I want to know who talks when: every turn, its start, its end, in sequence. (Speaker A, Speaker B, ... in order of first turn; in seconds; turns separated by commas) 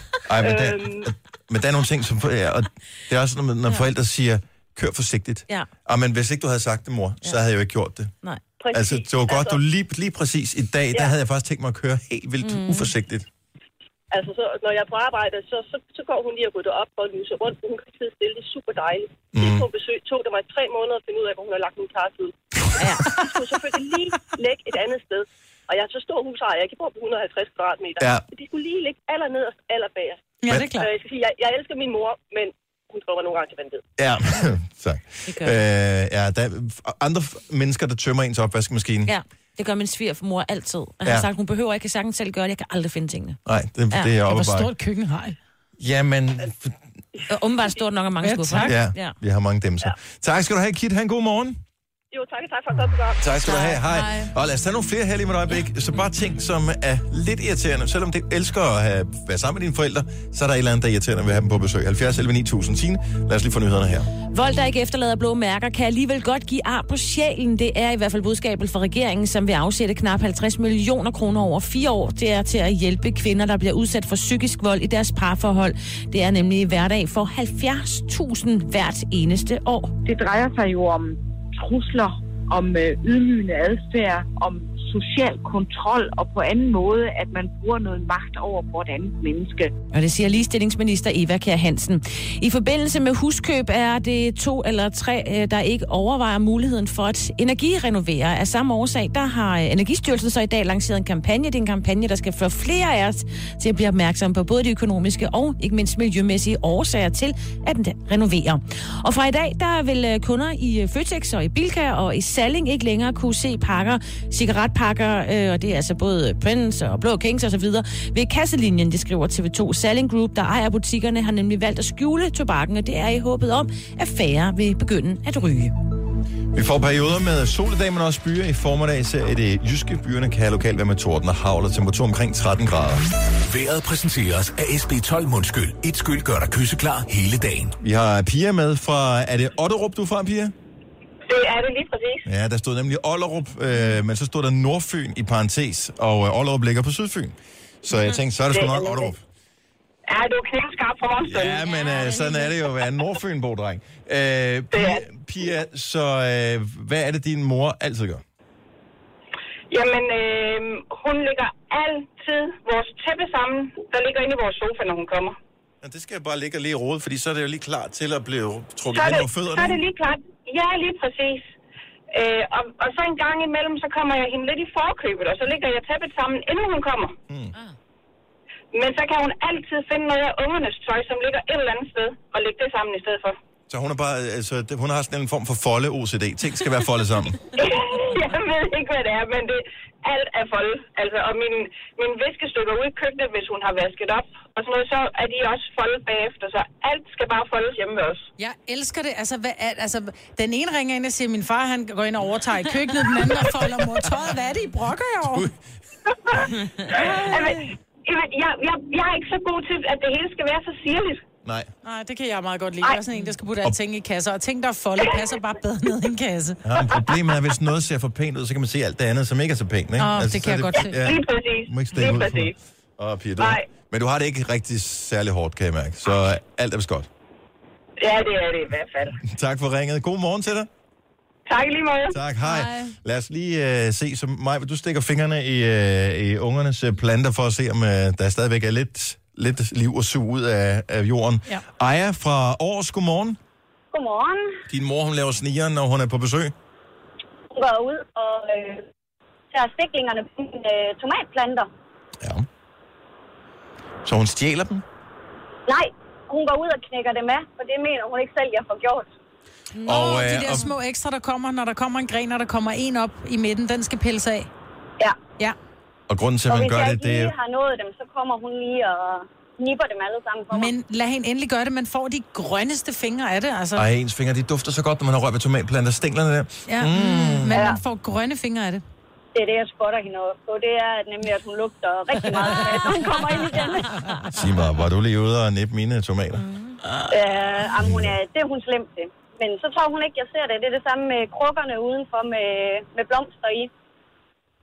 Speaker A: 0.2-8.1, Speaker B: 0.4-1.1, Speaker B: 8.6-9.6, Speaker A: 8.7-13.3, Speaker C: 12.4-12.9, Speaker B: 14.1-22.3, Speaker A: 19.3-19.6, Speaker C: 22.8-23.1, Speaker B: 23.1-33.8, Speaker A: 28.0-28.2, Speaker D: 30.4-30.9, Speaker A: 34.0-39.1, Speaker C: 35.3-35.6, Speaker C: 39.0-43.4, Speaker A: 43.5-44.7, Speaker D: 44.3-45.4, Speaker A: 45.8-46.8, Speaker C: 47.3-49.1, Speaker D: 48.2-48.7, Speaker A: 48.6-51.6, Speaker B: 52.1-53.2, Speaker A: 53.2-64.1, Speaker C: 53.4-54.3, Speaker C: 64.3-79.9, Speaker E: 80.0-89.7, Speaker C: 89.9-125.7, Speaker A: 126.5-133.0, Speaker F: 133.4-137.8, Speaker A: 137.8-140.5, Speaker G: 141.3-142.2, Speaker A: 142.2-149.2, Speaker G: 148.5-149.1, Speaker G: 150.1-151.6, Speaker A: 151.2-158.2, Speaker C: 151.6-152.6, Speaker G: 154.7-155.0, Speaker G: 159.7-165.3, Speaker A: 165.8-169.8, Speaker G: 168.9-171.5, Speaker G: 172.1-177.2, Speaker A: 177.3-177.5, Speaker G: 178.7-183.3, Speaker A: 183.7-187.5, Speaker G: 187.6-198.2, Speaker D: 198.4-205.5, Speaker A: 205.2-205.5, Speaker G: 206.3-211.2, Speaker D: 211.8-216.6, Speaker A: 216.6-227.1, Speaker D: 220.0-221.1, Speaker G: 220.9-222.5, Speaker G: 223.4-223.7, Speaker G: 228.0-229.2, Speaker A: 229.2-230.7, Speaker G: 231.5-232.1, Speaker A: 232.1-243.4, Speaker H: 243.9-244.5, Speaker A: 244.7-246.5, Speaker H: 247.5-248.8, Speaker H: 249.5-251.7, Speaker A: 252.2-252.5, Speaker A: 254.0-254.8, Speaker H: 255.7-259.1, Speaker C: 259.7-260.7, Speaker A: 259.8-260.7, Speaker D: 259.9-264.5, Speaker A: 266.1-267.3, Speaker H: 266.5-270.7, Speaker D: 270.5-273.9, Speaker A: 273.8-277.6, Speaker D: 276.7-278.8, Speaker H: 277.5-277.8, Speaker H: 279.3-283.9, Speaker A: 284.3-286.4, Speaker H: 287.1-293.7, Speaker A: 287.8-288.2